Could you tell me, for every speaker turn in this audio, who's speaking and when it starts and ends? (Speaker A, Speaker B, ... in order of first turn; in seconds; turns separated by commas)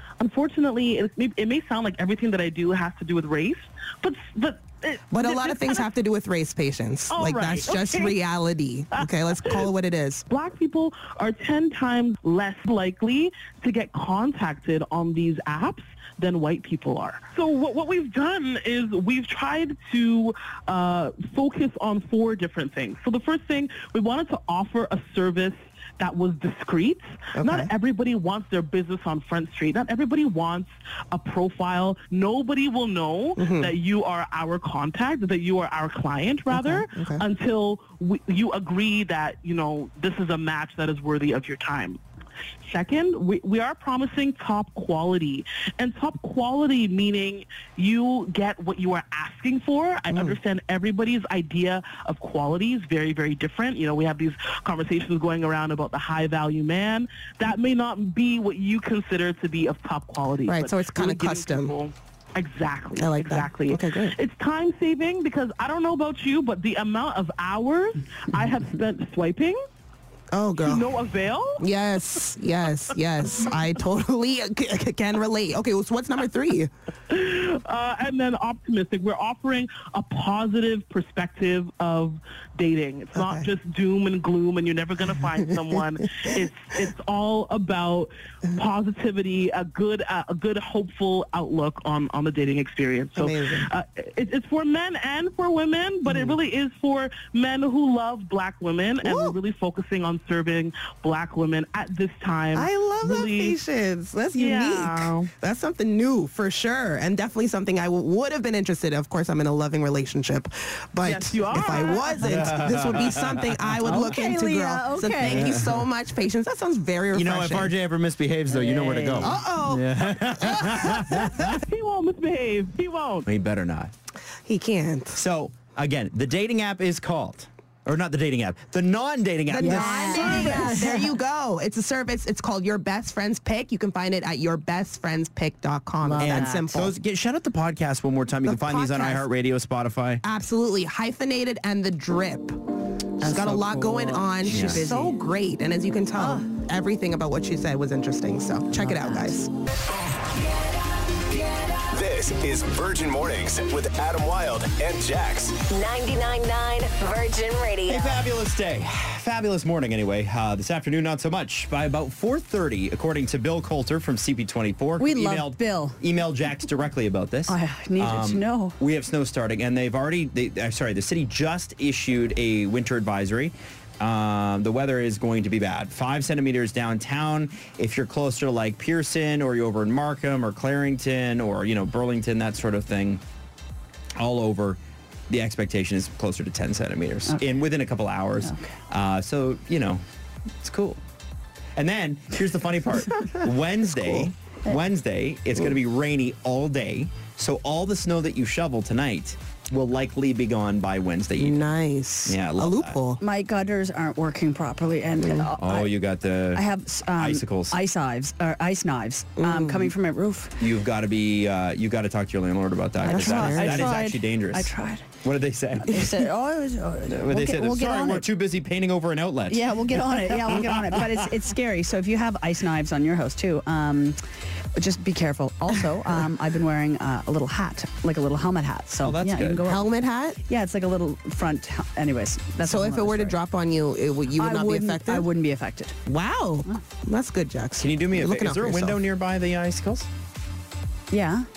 Speaker A: 0.2-5.9, Speaker B: 5.1-10.2, Speaker A: 7.1-8.2, Speaker A: 8.9-9.7, Speaker A: 10.3-42.0, Speaker B: 27.4-27.7, Speaker B: 33.4-33.7, Speaker B: 36.5-37.2, Speaker A: 42.6-69.6, Speaker B: 60.5-61.7, Speaker B: 63.0-64.1, Speaker B: 70.3-70.9, Speaker A: 70.6-71.7, Speaker B: 71.6-76.7, Speaker A: 77.1-103.6, Speaker B: 83.2-83.5, Speaker B: 93.2-93.7, Speaker B: 96.1-96.4, Speaker B: 99.0-99.4, Speaker B: 102.5-117.7, Speaker A: 104.4-105.2, Speaker A: 111.0-112.7, Speaker C: 112.2-114.1, Speaker D: 113.8-115.6, Speaker C: 115.2-115.8, Speaker C: 117.1-121.6, Speaker D: 118.5-119.4, Speaker B: 119.1-121.0, Speaker A: 121.5-123.3, Speaker C: 123.3-123.9, Speaker B: 124.5-125.2, Speaker C: 125.1-130.7, Speaker B: 129.5-136.9, Speaker D: 129.6-131.2, Speaker D: 136.0-136.7, Speaker C: 136.2-140.2, Speaker B: 138.5-139.2, Speaker B: 140.2-142.6, Speaker D: 143.2-145.1, Speaker B: 143.2-149.5, Speaker C: 144.4-144.9, Speaker D: 146.2-146.5, Speaker D: 148.7-149.5, Speaker E: 151.9-155.6, Speaker F: 155.6-158.2, Speaker C: 157.9-183.2, Speaker D: 165.0-166.0, Speaker D: 167.5-168.8, Speaker C: 184.2-190.0, Speaker C: 190.6-191.0, Speaker C: 191.8-201.7, Speaker B: 201.4-203.2, Speaker C: 202.3-203.0, Speaker D: 203.2-205.9, Speaker B: 205.2-205.4, Speaker C: 205.6-207.8, Speaker D: 206.5-210.6, Speaker B: 209.4-209.9, Speaker C: 210.6-216.2, Speaker B: 213.0-213.9, Speaker D: 213.1-215.1, Speaker D: 215.9-218.2, Speaker C: 217.1-221.2, Speaker D: 219.5-224.2, Speaker D: 224.8-229.9, Speaker C: 229.0-229.7, Speaker B: 229.6-230.4, Speaker D: 230.5-233.4, Speaker B: 232.6-235.3, Speaker D: 234.3-236.0, Speaker B: 236.1-239.0, Speaker C: 237.8-240.1, Speaker D: 241.1-241.5